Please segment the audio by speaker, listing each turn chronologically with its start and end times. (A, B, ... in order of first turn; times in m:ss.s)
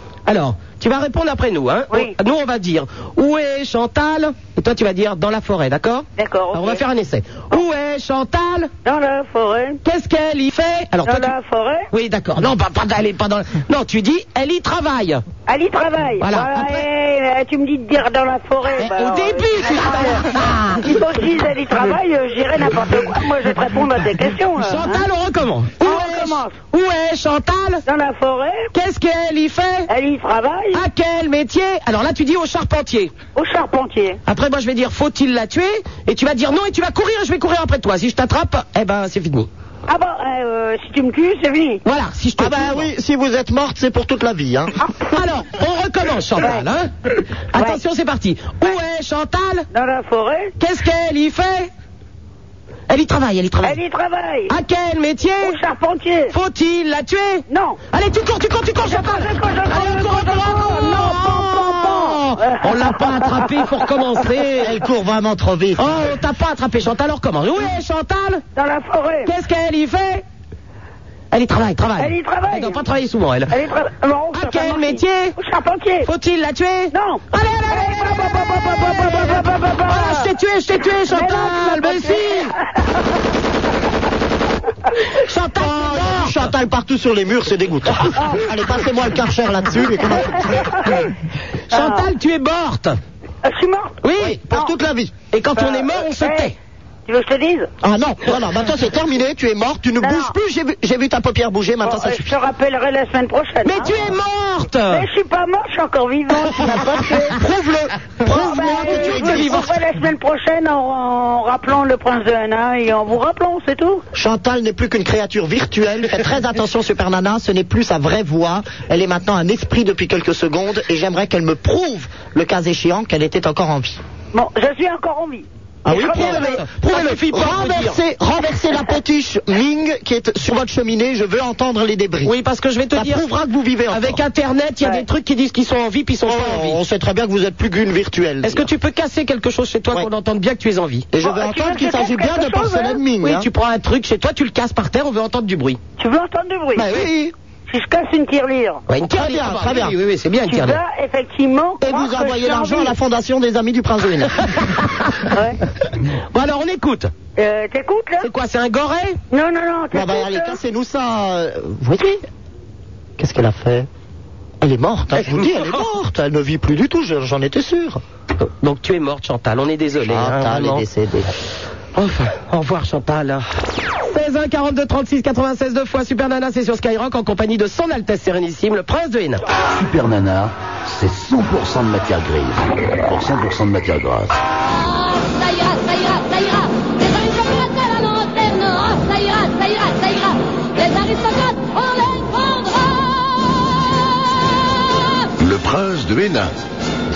0:00.3-0:08.7 A
0:01.9-0:02.2 B
0:06.2-0:06.8 B
0:08.8-0:09.8 B
0:09.8-0:11.3 A
0:11.1-0:11.9 B
0:11.9-0:15.2 A
0:15.5-0:20.2 B
0:16.2-0:16.8 A
0:18.8-0:20.9 A
0:20.8-0:25.1 B
0:24.6-0:27.8 A
0:25.8-0:26.6 B
0:27.9-0:28.7 B
0:28.7-0:29.9 A
0:29.9-0:30.8 B
0:30.7-0:33.1 A
0:33.4-0:34.2 B
0:34.3-0:39.5 A
0:39.9-0:41.8 B
0:41.8-0:42.9 A
0:42.4-0:44.7 C
0:44.8-0:45.2 B
0:45.1-0:46.9 A
0:46.4-0:46.7 B
0:47.5-0:49.7 A
0:47.5-0:47.8 B
0:49.7-0:50.5 B
0:50.6-0:51.7 A
0:52.9-0:53.8 A
0:53.6-0:54.5 B
0:54.5-0:55.6 A
0:55.4-0:56.4 B
0:56.3-1:04.8 A
0:57.5-0:57.8 B
0:58.8-1:03.8 B
1:04.6-1:06.1 C
1:05.8-1:08.4 A
1:08.6-1:09.3 B
1:09.3-1:10.2 A
1:11.3-1:13.5 A
1:12.0-1:12.9 B
1:13.5-1:16.1 B
1:14.4-1:15.3 A
1:16.0-1:22.5 A
1:16.9-1:20.3 B
1:21.0-1:22.8 B
1:25.1-1:26.4 A
1:25.6-1:30.8 C
1:28.2-1:28.4 B
1:30.3-1:31.0 B
1:31.7-1:32.1 B
1:31.7-1:33.0 A
1:33.4-1:34.7 B
1:34.0-1:34.4 A
1:34.2-1:35.1 C
1:35.3-1:36.6 A
1:35.6-1:36.5 B
1:37.1-1:37.7 B
1:37.8-1:42.3 C
1:40.0-1:40.4 B
1:41.8-1:44.1 B
1:43.6-1:45.0 A
1:44.9-1:47.4 B
1:47.2-1:49.7 C
1:48.3-1:49.7 A
1:48.3-1:54.0 B
1:54.1-2:04.0 C
2:04.3-2:06.6 B
2:05.8-2:12.4 C
2:06.0-2:08.0 A
2:12.2-2:13.2 A
2:13.0-2:14.2 C
2:13.9-2:16.8 A
2:16.3-2:18.7 C
2:18.4-2:21.1 A
2:21.1-2:23.5 C
2:21.2-2:23.0 B
2:23.2-2:25.8 A
2:26.0-2:26.9 B
2:26.8-2:27.3 C
2:27.7-2:28.8 B
2:28.9-2:30.8 A
2:29.1-2:30.0 C
2:30.5-2:33.0 B
2:31.8-2:34.4 C
2:34.6-2:35.3 A
2:35.3-2:35.6 B
2:36.3-2:37.1 A
2:37.4-2:38.3 B
2:38.2-2:39.2 A
2:39.3-2:40.6 B
2:39.9-2:42.2 C
2:43.2-2:43.9 C
2:44.6-2:48.0 C
2:48.4-2:50.8 A
2:50.0-2:51.3 C
2:52.0-2:53.4 A
2:54.1-2:59.4 A
2:59.7-3:04.4 D
3:05.2-3:13.1 E
3:15.4-3:16.5 D